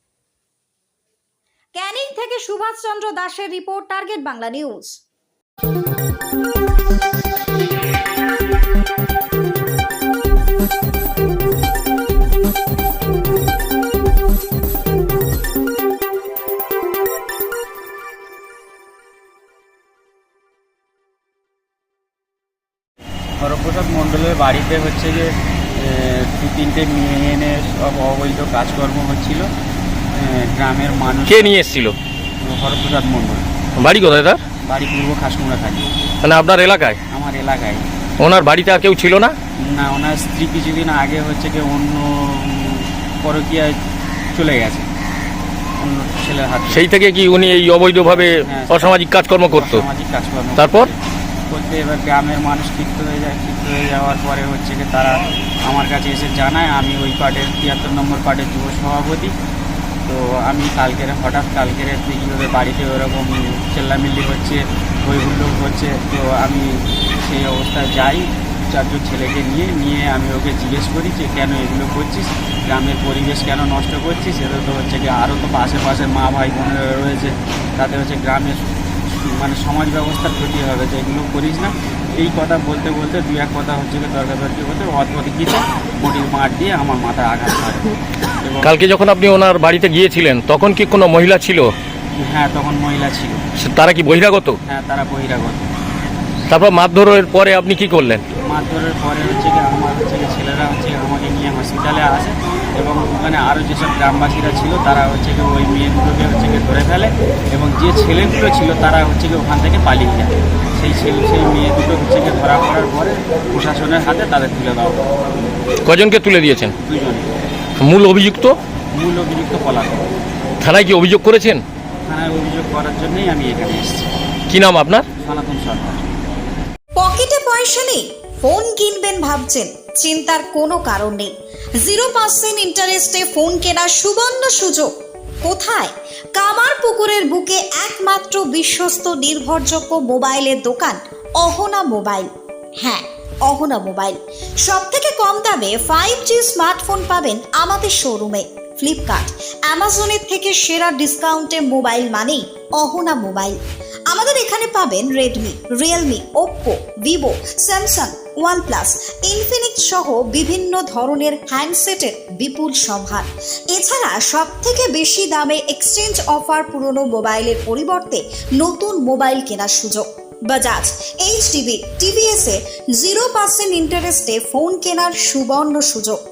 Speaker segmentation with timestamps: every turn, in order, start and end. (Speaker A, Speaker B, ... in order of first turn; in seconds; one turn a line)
Speaker A: 1.8-5.0
Speaker B: 23.4-29.5
Speaker B: 30.1-31.7
Speaker C: 31.3-31.9
Speaker B: 32.4-33.5
Speaker C: 33.8-34.4
Speaker B: 34.7-36.0
Speaker C: 36.2-37.0
Speaker B: 37.1-37.9
Speaker C: 38.2-39.3
Speaker B: 39.6-43.7
Speaker B: 44.3-44.9
Speaker B: 45.8-46.9
Speaker C: 46.7-49.8
Speaker B: 48.0-51.0
Speaker C: 50.6-50.9
Speaker B: 51.5-59.3
Speaker B: 60.1-88.8
Speaker C: 88.6-91.7
Speaker B: 92.2-93.4
Speaker C: 93.6-94.6
Speaker B: 94.7-95.7
Speaker C: 96.5-98.2
Speaker B: 98.4-115.1
Speaker C: 115.8-116.7
Speaker B: 116.8-117.3
Speaker C: 117.8-118.6
Speaker B: 119.0-120.1
Speaker C: 120.6-121.6
Speaker B: 122.1-124.1
Speaker C: 124.5-125.1
Speaker B: 125.2-126.1
Speaker A: 127.0-134.9
Speaker A: 135.4-153.6
Speaker A: 154.1-176.2